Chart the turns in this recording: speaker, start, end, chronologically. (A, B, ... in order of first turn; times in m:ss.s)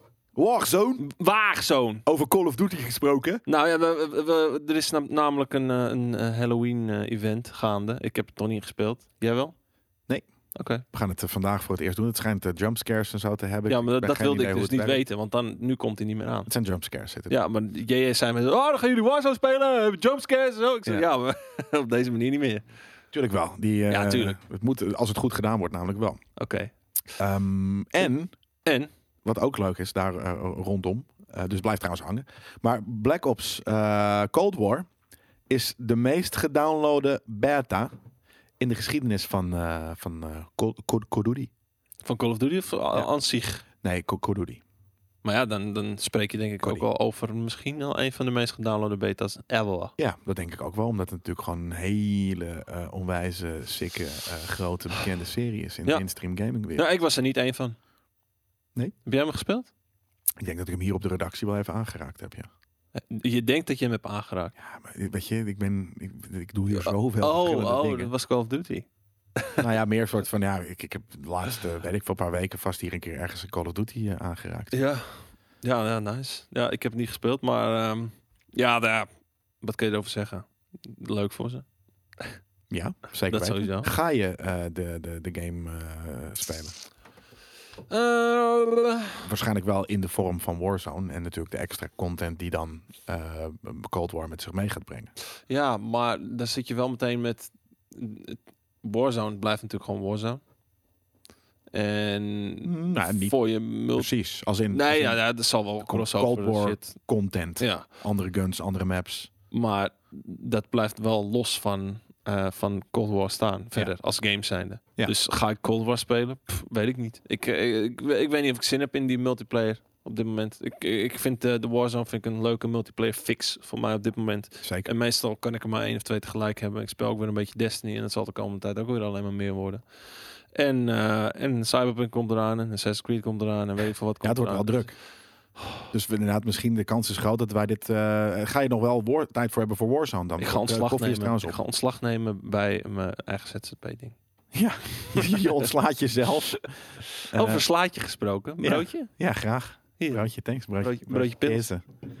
0:00.4-0:01.1 A
0:01.0-0:02.0 B
0:02.0-0:03.4 A
0:03.4-0:09.5 B
0:10.5-0:10.8 B
0:10.9-0:15.0 A
0:13.7-0:16.5 B
0:16.4-0:17.4 A
0:17.3-0:22.6 B
0:23.1-0:26.2 A
0:23.9-0:24.4 B
0:26.4-0:26.7 B
0:27.2-0:28.3 A
0:28.6-0:28.9 B
0:29.2-0:34.9 A
0:35.5-0:37.9 A
0:38.6-0:41.5 A
0:42.0-0:43.6 B
0:43.8-0:44.6 A
0:45.2-0:49.9 B
0:50.0-0:56.9 A
0:56.7-0:57.8 B
0:59.0-0:59.7 B
1:00.4-1:02.5 A
1:02.9-1:04.5 B
1:04.6-1:08.1 A
1:06.7-1:09.6 B
1:09.6-1:14.8 A
1:14.7-1:19.1 B
1:19.6-1:21.6 B
1:22.7-1:26.7 A
1:23.3-1:23.9 B
1:27.9-1:29.3 B
1:29.2-1:35.1 A
1:35.5-1:40.4 B
1:41.7-1:44.1 B
1:42.6-1:43.4 A
1:43.9-1:45.2 A
1:44.7-1:47.0 B
1:45.8-1:49.3 A
1:47.6-1:47.8 B
1:49.5-2:09.8 B
2:04.6-2:04.9 A
2:10.5-2:14.8 B
2:14.2-2:14.9 A
2:15.9-2:21.6 A
2:20.4-2:24.2 B
2:24.5-2:27.6 A
2:25.1-2:25.7 B
2:27.3-2:29.1 B
2:28.6-2:31.8 A
2:30.0-2:30.3 B
2:30.8-2:31.7 B